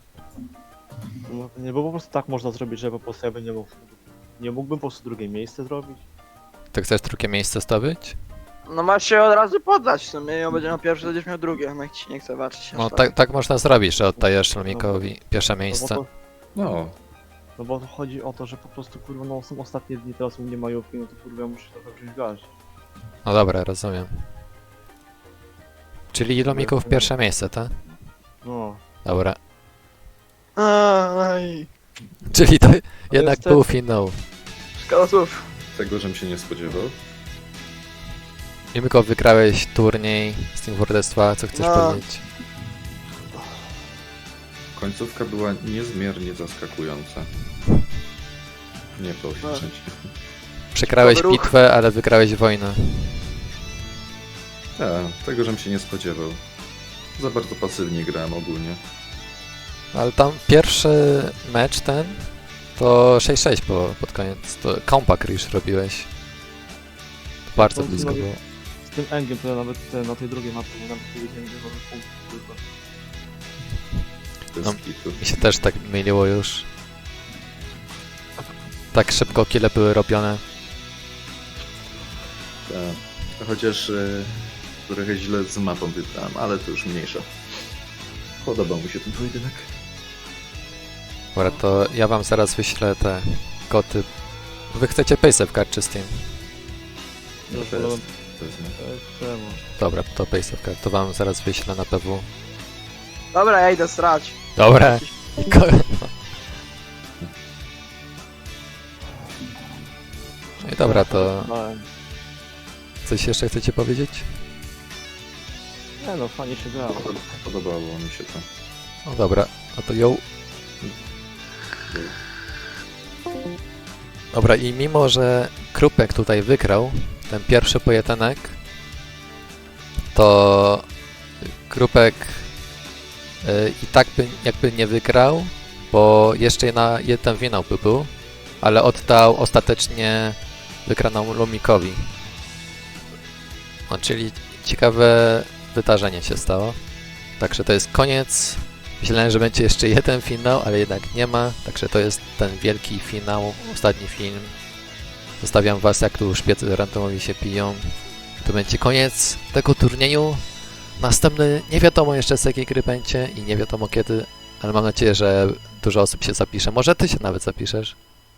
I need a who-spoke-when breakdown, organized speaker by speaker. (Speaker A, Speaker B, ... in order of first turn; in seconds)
Speaker A: 1.3-6.0, 14.2-15.0, 15.7-16.1, 17.6-22.5, 26.5-27.1, 28.4-28.8, 33.1-33.7, 67.6-72.6, 97.5-98.0, 98.8-99.6, 110.8-111.9, 116.0-117.1
Speaker B: 6.7-8.2, 12.7-16.0, 23.2-24.3, 26.1-27.8, 29.0-29.4, 32.3-34.2, 38.7-42.2, 50.7-53.4, 59.9-66.1, 67.5-68.4, 74.6-76.7, 78.9-80.4, 91.3-94.1, 94.7-96.3, 99.8-102.3, 104.5-106.1, 110.6-111.5, 113.0-114.3, 119.0-120.2, 124.3-128.6, 130.1-130.8, 131.6-132.5, 133.4-142.1, 143.9-146.8, 147.4-154.6, 155.4-168.0
Speaker C: 8.7-13.1, 30.6-31.7, 34.8-35.5, 41.5-42.0, 50.8-51.5, 103.3-105.4
Speaker D: 16.5-16.9, 35.7-37.0, 44.7-47.3, 49.0-50.1, 54.8-56.4, 57.1-58.8, 74.5-75.2, 82.7-87.3, 88.4-89.7, 97.5-98.8, 116.9-118.5, 121.9-122.2